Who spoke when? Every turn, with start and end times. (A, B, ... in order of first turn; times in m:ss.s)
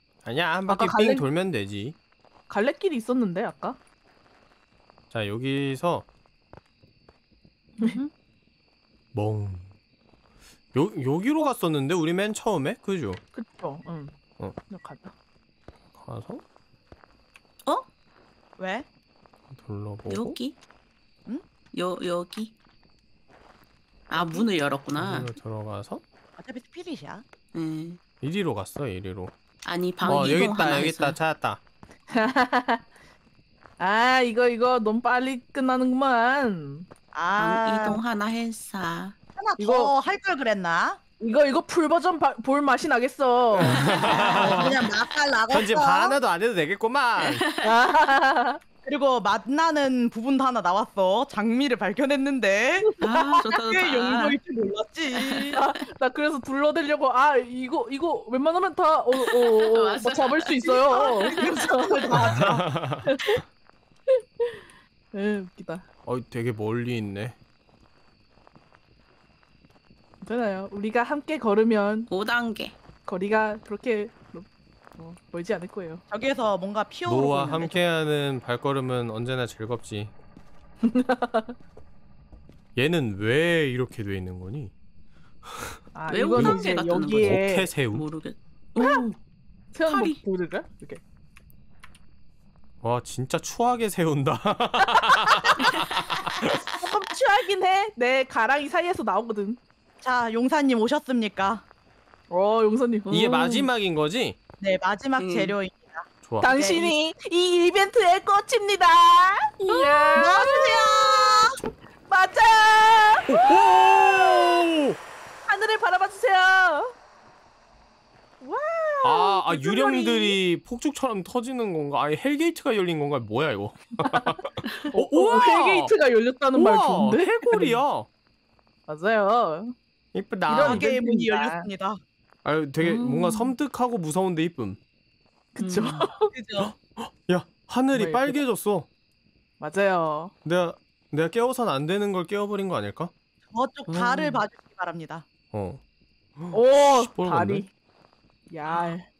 0:00.2-0:02.0 A
0:00.7-0:01.2 B
0:02.5-0:03.8 B
0:05.1-0:06.0 A
0:07.8-0:08.1 C
0:09.1-0:09.7 A
0:10.7-0:13.2 A
0:13.3-0:14.2 B
0:14.7-0:15.1 B
0:15.9-0:16.4 A
0:18.6-0:18.8 D
0:19.5-0:20.4 A
0:20.1-0:20.6 C
0:21.7-0:22.5 C
0:24.1-0:25.3 C
0:25.0-0:26.0 A
0:26.4-0:27.2 D
0:27.5-0:28.0 C
0:28.2-0:29.3 A
0:29.6-0:31.2 C
0:30.0-0:31.6 A
0:32.1-0:32.8 B
0:33.8-0:36.9 B
0:37.1-0:38.0 D
0:37.4-0:39.1 C
0:39.4-0:41.0 D
0:39.6-0:39.9 B
0:41.2-0:44.7 B
0:43.6-0:44.7 A
0:43.8-0:44.7 C
0:44.1-0:46.2 D
0:45.5-0:47.4 A
0:47.2-0:47.6 C
0:47.6-0:48.6 B
0:48.8-0:53.0 D
0:52.9-0:53.4 B
0:53.0-0:54.4 C
0:53.5-0:55.6 D
0:55.1-0:55.6 C
0:55.5-1:03.4 B
0:59.1-1:01.5 C
1:00.9-1:02.6 D
1:02.4-1:03.1 A
1:04.1-1:05.8 B
1:06.0-1:07.4 A
1:10.2-1:12.1 B
1:12.1-1:12.7 C
1:13.0-1:16.0 B
1:16.1-1:17.8 D
1:17.1-1:20.1 A
1:20.8-1:21.5 B
1:22.8-1:24.7 A
1:25.5-1:25.7 A
1:25.9-1:27.7 B
1:26.1-1:29.2 C
1:26.3-1:26.6 A
1:27.2-1:28.0 A
1:28.8-1:29.0 B
1:29.7-1:31.0 B
1:29.8-1:30.1 C
1:32.8-1:36.6 A
1:36.8-1:39.6 B
1:40.0-1:41.6 D
1:42.3-1:43.7 B
1:43.1-1:44.4 A
1:44.6-1:46.9 D
1:45.2-1:45.5 C
1:46.2-1:46.5 A
1:46.4-1:51.3 B
1:49.7-1:50.6 C
1:50.2-1:51.6 D
1:52.1-1:54.6 B
1:53.3-1:55.0 A
1:55.4-1:56.9 B
1:58.4-2:00.4 B
1:59.0-2:05.9 A
2:04.1-2:07.8 B
2:06.5-2:08.1 A
2:08.9-2:09.7 B
2:10.1-2:10.9 A
2:10.5-2:11.7 B
2:10.6-2:12.0 D
2:12.4-2:14.8 A
2:12.8-2:13.5 C
2:15.5-2:16.3 B
2:15.6-2:16.1 C
2:16.3-2:16.7 D
2:16.6-2:18.9 A
2:17.9-2:18.4 B
2:19.6-2:20.3 B
2:20.4-2:23.1 A
2:23.5-2:25.3 D
2:23.9-2:24.4 C
2:25.5-2:25.8 A
2:26.4-2:27.6 A
2:26.5-2:27.7 B
2:28.5-2:29.1 B